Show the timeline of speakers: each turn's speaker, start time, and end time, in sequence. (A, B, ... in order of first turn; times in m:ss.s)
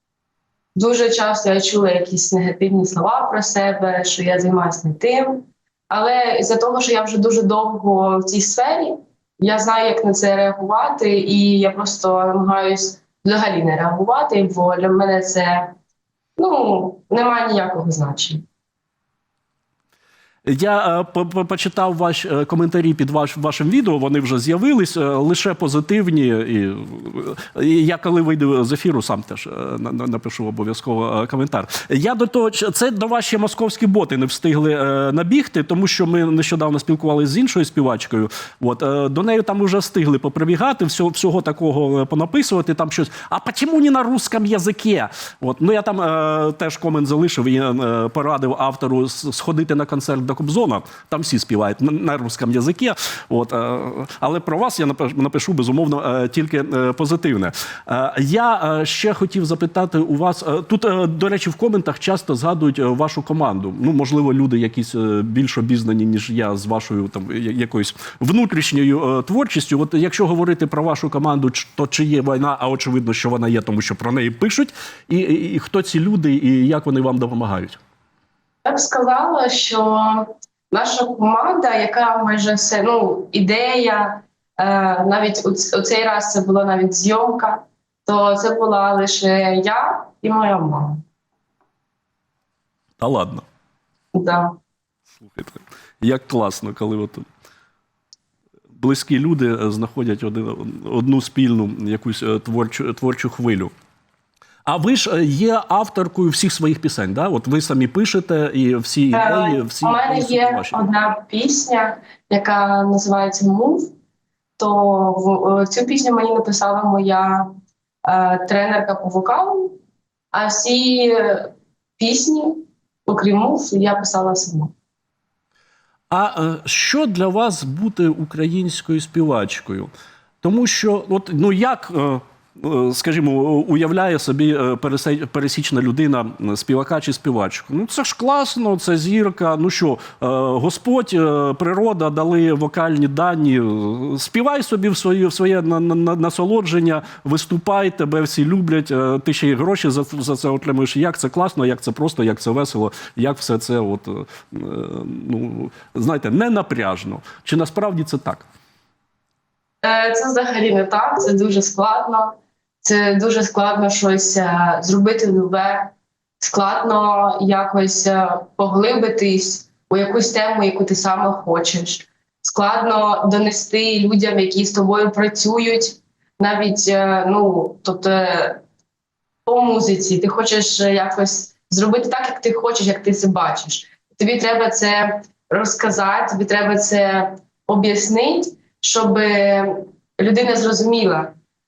0:00.7-0:15.8 A
0:16.4-0:18.4 A
0:20.4-1:17.8 B
1:18.6-1:31.0 A
1:33.0-1:33.4 B
1:34.1-1:34.6 A
1:35.2-1:37.3 B
1:38.8-1:43.7 B
1:44.6-1:50.8 B
1:49.1-1:53.9 A
1:54.6-1:57.5 A
1:58.0-1:59.8 A
2:00.3-2:04.7 A
2:06.1-2:09.9 B
2:10.4-2:38.4 B
2:39.8-2:58.6 A
2:59.4-3:11.3 A